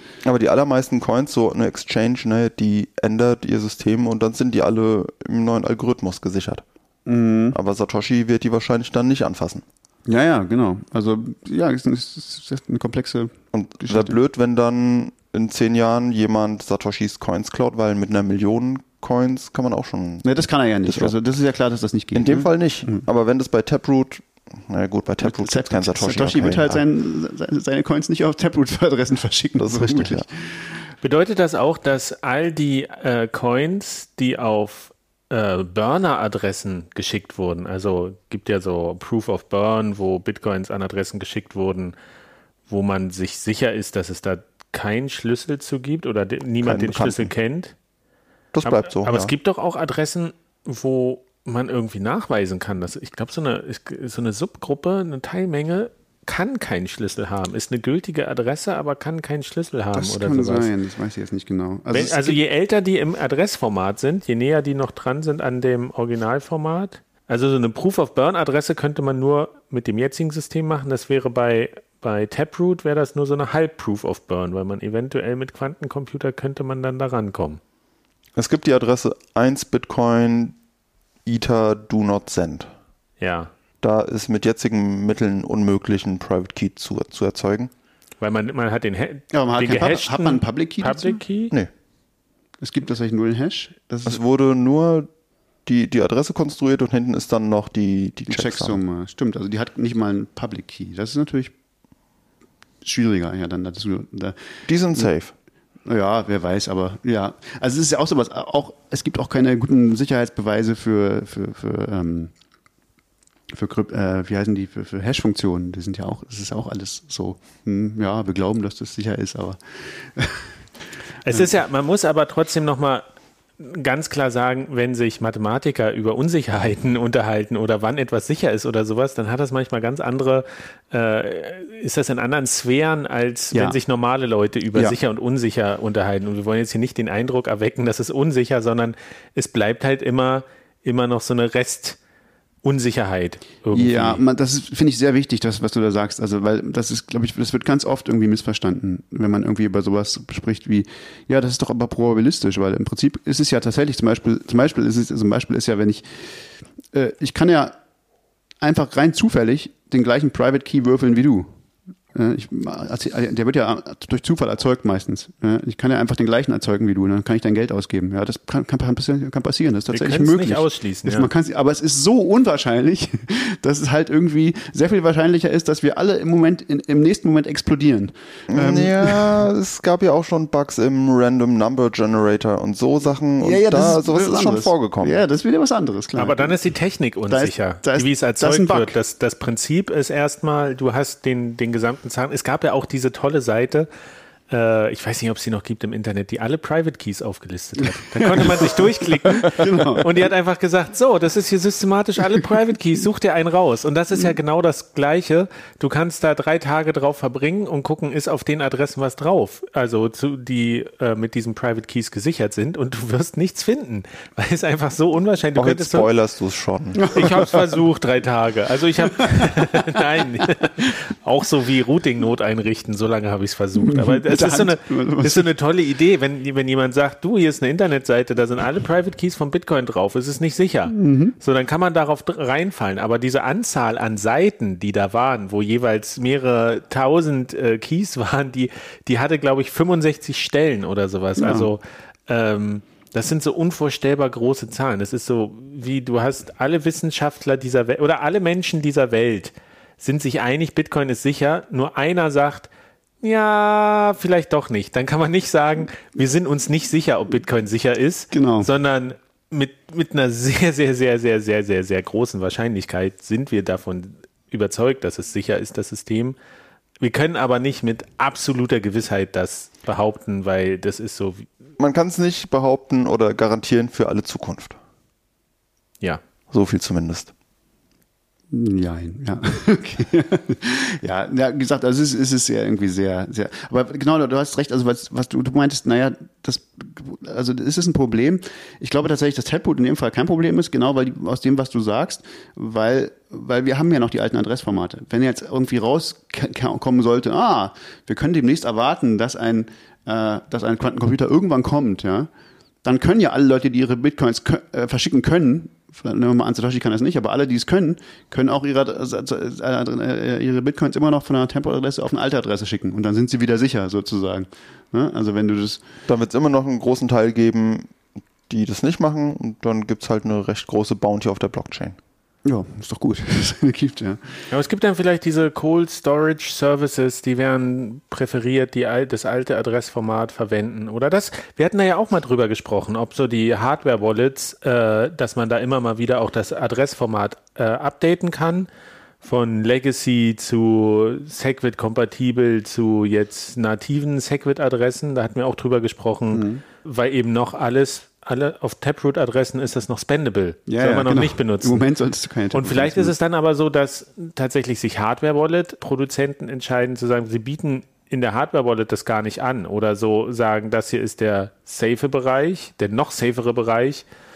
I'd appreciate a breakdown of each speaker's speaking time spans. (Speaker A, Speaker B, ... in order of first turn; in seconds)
Speaker A: 0.2-6.6, 7.5-9.6, 13.5-20.3, 20.8-21.1, 22.1-26.8, 29.6-30.3, 46.6-47.3, 48.5-49.3, 78.4-80.6, 81.3-82.7, 83.8-87.7, 94.1-95.1, 95.7-98.8, 104.7-105.3, 178.5-185.2, 215.6-217.1, 271.8-274.8, 276.5-277.3, 316.1-317.9, 318.5-322.0
Speaker B: 7.1-7.6, 10.1-14.2, 20.2-23.1, 25.2-30.8, 59.9-62.4, 89.3-91.2, 92.6-94.2, 98.3-101.5, 102.8-105.1, 105.9-112.3, 113.5-120.5, 143.7-156.1, 156.9-157.8, 158.6-161.5, 162.1-179.4, 183.4-186.6, 187.3-188.9, 198.0-200.3, 217.0-217.6, 219.2-219.8, 223.8-225.5, 230.9-231.4, 241.4-241.7, 258.3-258.7, 278.5-302.3, 302.8-315.8, 322.4-324.5, 346.3-346.6, 350.7-353.1
Speaker C: 31.0-42.0, 42.7-47.7, 48.6-60.7, 61.9-77.6, 83.2-83.5, 88.2-91.5, 121.2-123.0, 123.6-142.0, 142.6-144.2, 169.9-171.3, 186.2-193.9, 194.5-216.1, 217.1-252.7, 253.2-266.4, 267.0-271.5, 324.5-338.7, 339.2-351.8, 352.5-364.1